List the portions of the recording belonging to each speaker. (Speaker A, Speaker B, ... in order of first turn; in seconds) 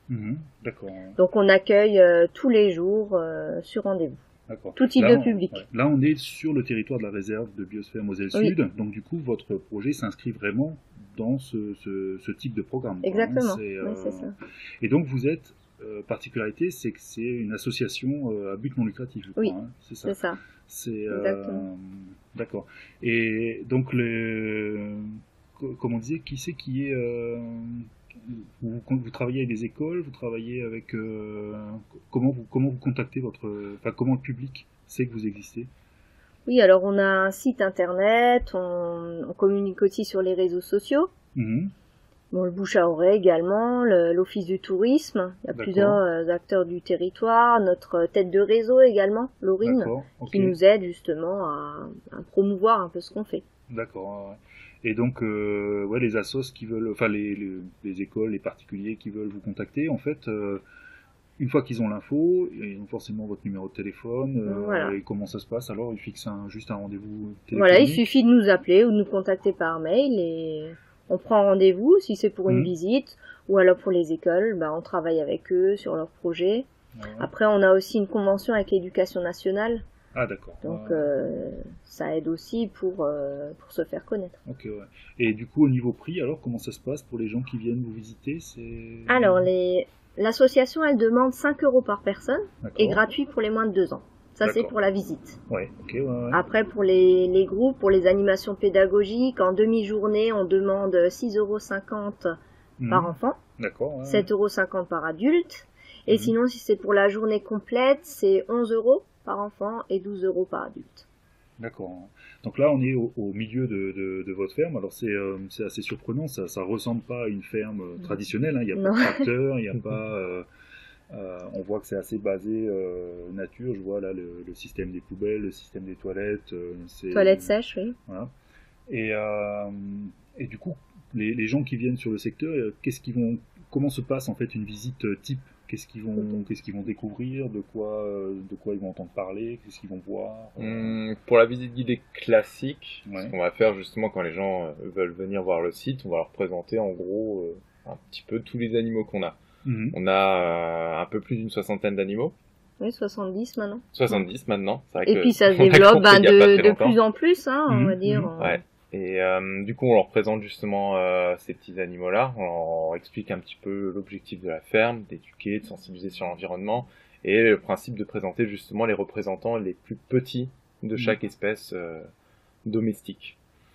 Speaker A: 0.1-1.2, 4.5-35.7, 41.3-41.7, 45.5-46.0, 49.6-50.6, 53.7-60.6, 61.4-68.0, 72.5-72.7, 76.9-77.3, 80.1-81.1, 84.4-89.5, 92.6-93.0, 94.4-94.7, 95.5-96.4, 102.8-104.3, 106.1-106.3, 111.6-120.5, 121.1-127.5, 128.9-141.0, 143.1-143.3, 149.6-150.0, 157.7-158.3
Speaker B: 1.2-4.2, 4.8-5.6, 13.0-14.3, 19.4-20.4, 21.1-21.6, 36.5-41.1, 42.3-53.4, 64.5-65.0, 67.5-76.7, 77.2-79.8, 80.6-84.3, 89.1-95.4, 96.3-102.3, 102.9-103.4, 104.0-111.0, 118.8-119.3, 127.1-128.0, 136.2-136.4, 152.8-154.2, 155.0-158.6
Speaker C: 140.6-149.4, 149.9-152.3, 153.9-157.0, 158.4-172.1, 172.6-173.4